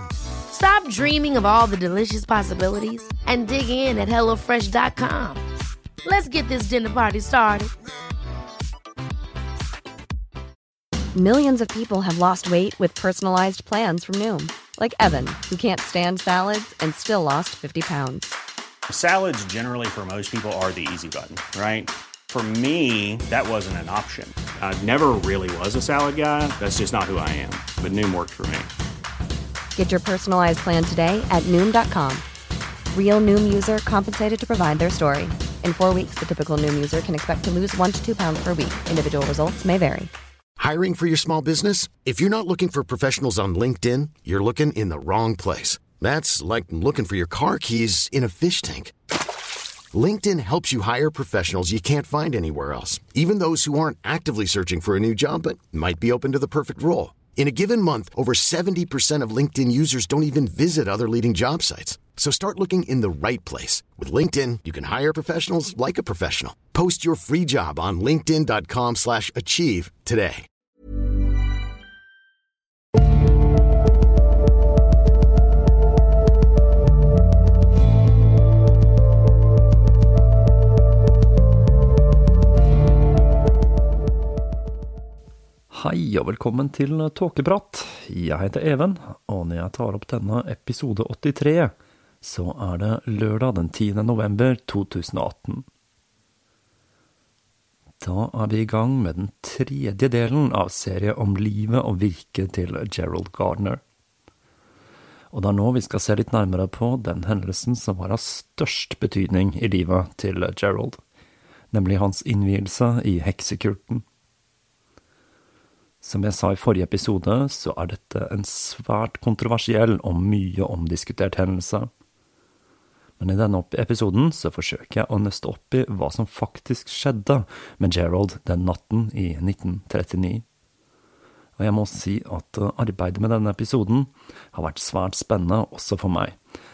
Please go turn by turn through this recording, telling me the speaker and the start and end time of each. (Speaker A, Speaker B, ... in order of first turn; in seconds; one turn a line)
Speaker A: 0.5-5.4
Speaker A: 6.0-7.7
Speaker B: 11.1-18.3
Speaker C: 18.9-28.7
Speaker B: 29.8-32.2
Speaker B: 32.9-40.1
Speaker D: 40.6-48.9
Speaker D: 49.9-70.5
Speaker E: 85.7-95.6
Speaker E: 98.0-103.8
Speaker E: 105.3-111.0
Speaker E: 111.7-114.0
Speaker E: 116.0-121.9
Speaker E: 123.2-130.4
Speaker E: 131.6-136.4